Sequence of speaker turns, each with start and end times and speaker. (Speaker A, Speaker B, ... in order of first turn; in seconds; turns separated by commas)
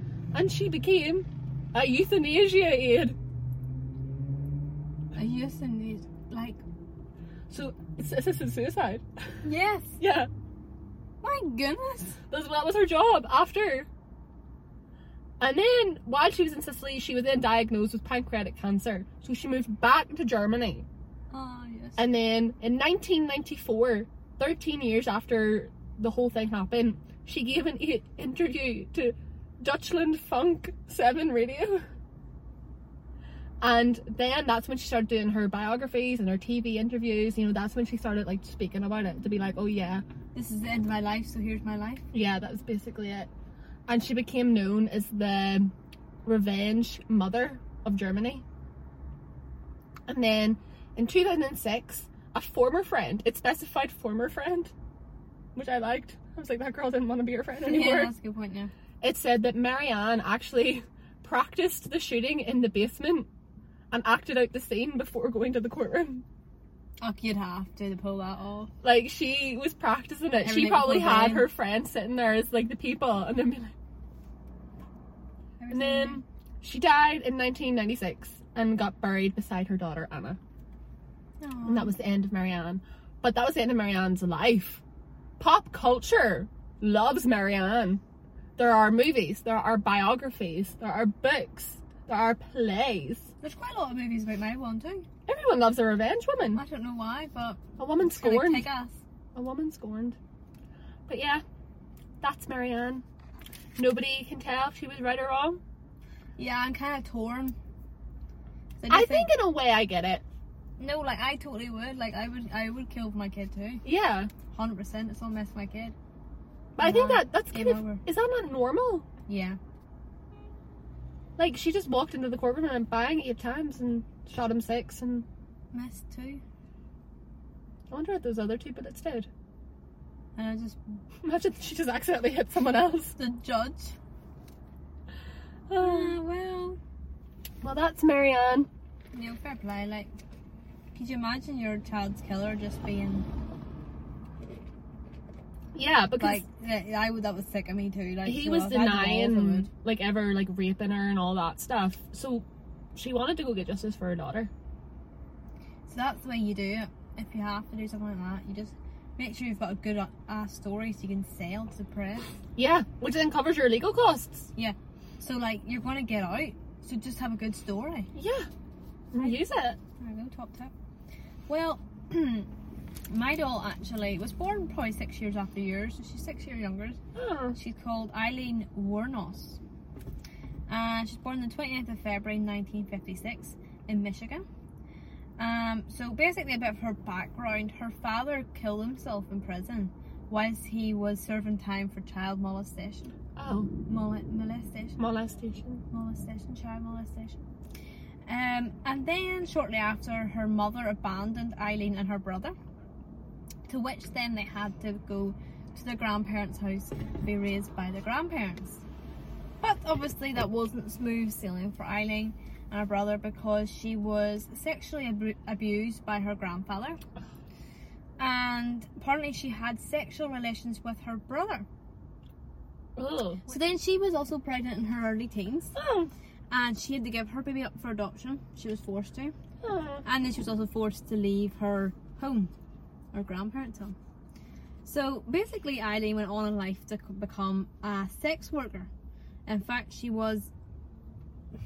Speaker A: 0.3-3.2, Speaker B: 5.2-6.6, Speaker A: 7.5-9.4, Speaker B: 9.4-10.0, Speaker A: 10.0-10.3, Speaker B: 11.2-12.2, Speaker A: 12.3-13.9, Speaker A: 15.4-20.9, Speaker B: 21.3-22.1, Speaker A: 22.0-31.9, Speaker A: 33.6-40.0, Speaker B: 40.4-42.1, Speaker A: 42.1-43.3, Speaker A: 43.9-45.7, Speaker A: 46.2-48.4, Speaker A: 50.1-54.7, Speaker A: 55.5-58.1, Speaker B: 57.6-58.7, Speaker A: 59.0-63.3, Speaker A: 63.9-66.2, Speaker B: 67.0-68.7, Speaker A: 68.8-73.7, Speaker B: 70.4-71.5, Speaker B: 75.6-76.2, Speaker A: 75.7-80.4, Speaker B: 81.4-81.9, Speaker A: 81.7-84.8, Speaker A: 85.4-88.0, Speaker A: 88.6-93.3, Speaker B: 93.4-95.1, Speaker A: 95.3-96.6, Speaker B: 96.5-99.0, Speaker A: 97.8-98.7, Speaker A: 99.3-100.2, Speaker A: 101.1-101.4, Speaker A: 102.2-103.0, Speaker A: 103.8-105.6, Speaker B: 106.4-107.6, Speaker B: 108.8-109.3, Speaker A: 108.9-110.2, Speaker B: 110.8-113.8, Speaker A: 113.8-114.3, Speaker B: 114.5-116.0, Speaker A: 116.8-119.1, Speaker B: 116.8-118.0, Speaker B: 119.3-119.6, Speaker A: 121.4-125.3, Speaker B: 125.7-126.4, Speaker A: 127.9-129.3, Speaker B: 130.4-130.8, Speaker A: 131.2-133.2, Speaker B: 133.2-134.0, Speaker A: 135.7-136.2, Speaker B: 135.8-136.8, Speaker A: 137.6-138.7, Speaker B: 139.1-140.1, Speaker B: 140.9-143.3, Speaker A: 145.8-146.4, Speaker B: 146.2-149.7, Speaker A: 148.3-154.5, Speaker B: 155.9-162.3, Speaker A: 162.6-164.5, Speaker B: 164.6-168.1, Speaker A: 168.2-168.5, Speaker A: 169.1-169.8, Speaker B: 170.0-170.7, Speaker B: 171.5-172.5, Speaker B: 173.1-177.0, Speaker A: 177.2-177.6, Speaker B: 177.6-179.6, Speaker B: 180.7-184.4, Speaker B: 185.4-193.1, Speaker A: 193.4-193.7, Speaker B: 193.9-195.0, Speaker A: 195.0-195.8, Speaker B: 195.9-197.5, Speaker B: 198.3-202.5, Speaker B: 203.7-208.8, Speaker B: 209.6-217.0, Speaker B: 218.2-221.7, Speaker A: 223.0-223.4, Speaker B: 223.5-225.8, Speaker A: 225.8-226.1, Speaker B: 226.5-229.3, Speaker A: 229.6-230.1, Speaker B: 230.1-232.5, Speaker B: 233.1-233.9, Speaker B: 234.8-238.9, Speaker B: 239.5-240.5